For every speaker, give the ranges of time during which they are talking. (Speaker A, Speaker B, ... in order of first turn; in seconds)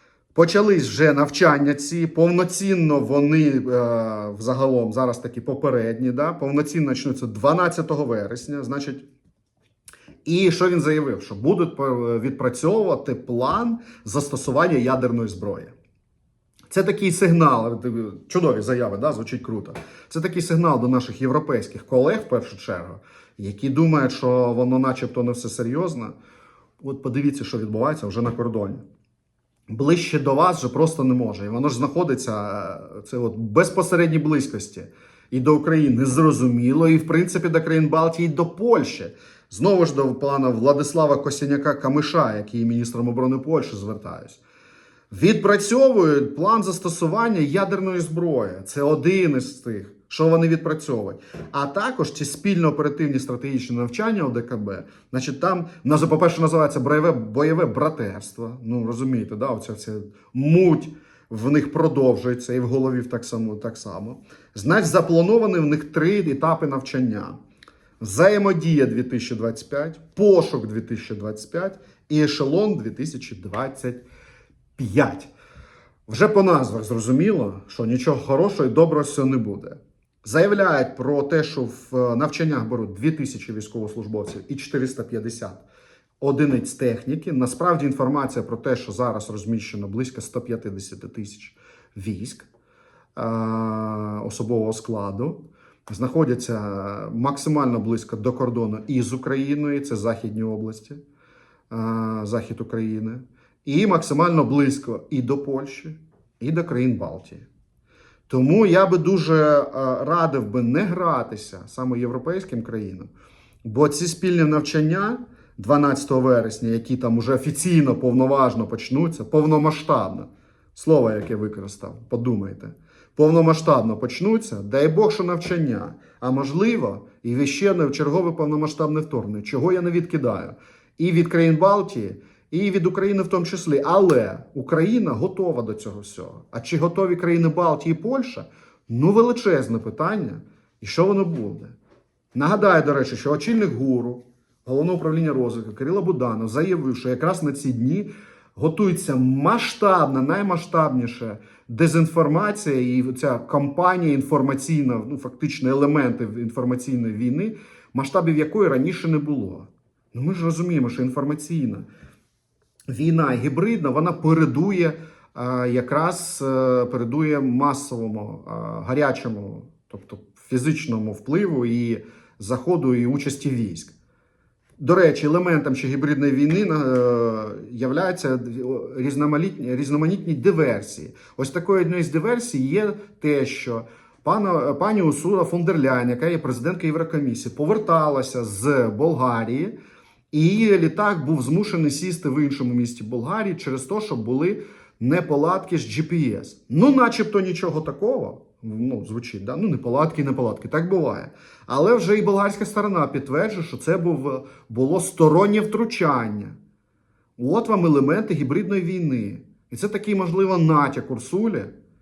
Speaker A: 0.3-9.0, 10.2-15.7, 16.7-26.1, 26.8-28.8, 29.7-44.4, 45.1-67.4, 68.0-74.0, 74.8-75.3, 76.1-85.6, 86.2-92.5, 93.2-101.0, 101.7-107.5, 108.3-113.1, 113.6-141.7, 142.3-161.8, 162.9-173.9, 174.8-189.7, 190.3-206.6, 207.4-211.7